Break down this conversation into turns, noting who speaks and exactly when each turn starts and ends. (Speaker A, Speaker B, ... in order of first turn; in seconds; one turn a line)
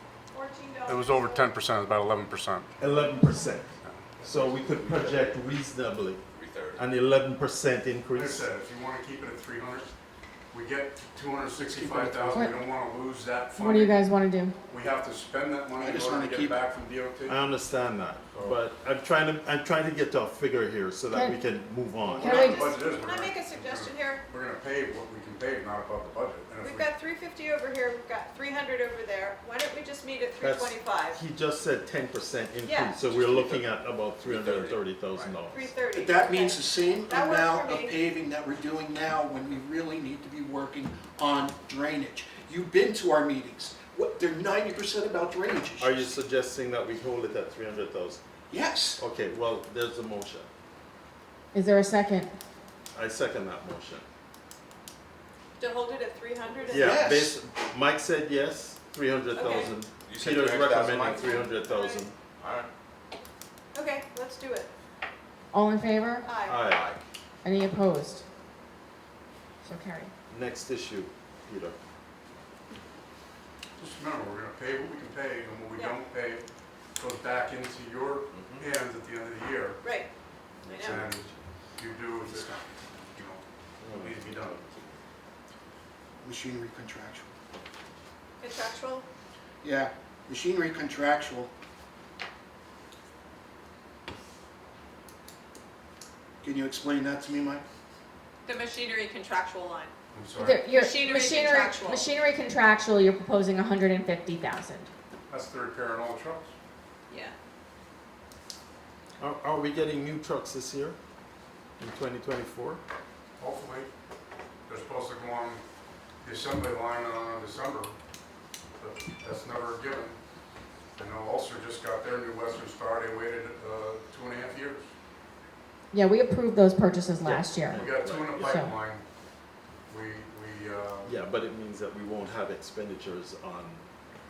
Speaker A: 0.3-1.5
Speaker B: 0.8-2.7
Speaker C: 2.8-3.7
Speaker B: 3.8-4.2
Speaker D: 4.2-5.4
Speaker C: 4.2-6.2
Speaker D: 6.3-6.8
Speaker C: 6.7-8.5
Speaker B: 8.1-9.9
Speaker B: 10.5-14.0
Speaker C: 11.6-12.4
Speaker E: 12.3-12.6
Speaker E: 13.6-14.5
Speaker B: 14.7-17.4
Speaker F: 15.8-16.6
Speaker C: 17.2-22.6
Speaker E: 21.1-21.4
Speaker E: 22.0-22.7
Speaker B: 22.2-26.9
Speaker A: 22.3-24.2
Speaker A: 26.6-31.2
Speaker C: 30.4-35.7
Speaker A: 32.6-32.9
Speaker D: 33.0-33.7
Speaker D: 34.2-35.3
Speaker A: 35.5-38.0
Speaker F: 35.9-46.1
Speaker C: 45.8-48.2
Speaker F: 48.5-49.0
Speaker C: 49.0-50.5
Speaker E: 51.5-52.3
Speaker C: 52.9-54.0
Speaker A: 55.6-57.0
Speaker C: 56.7-62.1
Speaker F: 56.7-57.4
Speaker A: 59.4-59.7
Speaker D: 60.0-61.5
Speaker A: 61.1-62.0
Speaker D: 62.4-62.7
Speaker A: 63.7-64.7
Speaker E: 65.5-66.3
Speaker A: 66.2-66.7
Speaker C: 66.5-66.9
Speaker D: 66.6-67.0
Speaker E: 67.4-68.2
Speaker E: 69.6-70.1
Speaker C: 70.3-71.8
Speaker B: 73.8-76.5
Speaker B: 77.0-79.8
Speaker D: 78.3-78.6
Speaker A: 79.8-80.1
Speaker C: 80.6-81.4
Speaker A: 80.7-81.0
Speaker B: 80.8-81.2
Speaker B: 81.8-84.9
Speaker C: 83.8-84.2
Speaker F: 86.2-87.3
Speaker A: 88.4-89.0
Speaker F: 89.6-91.5
Speaker F: 96.4-97.6
Speaker A: 98.4-99.9
Speaker B: 100.1-100.6
Speaker E: 100.4-104.9
Speaker A: 100.7-102.0
Speaker B: 105.3-106.5
Speaker A: 107.1-107.3
Speaker C: 109.2-111.0
Speaker C: 111.8-112.8
Speaker B: 113.4-113.9
Speaker B: 114.7-115.6
Speaker B: 116.2-117.9
Speaker B: 118.8-120.2
Speaker B: 121.0-124.9
Speaker E: 125.9-127.8
Speaker C: 127.2-128.6
Speaker B: 127.7-129.0
Speaker E: 128.3-128.7
Speaker B: 129.9-131.2
Speaker C: 131.0-133.8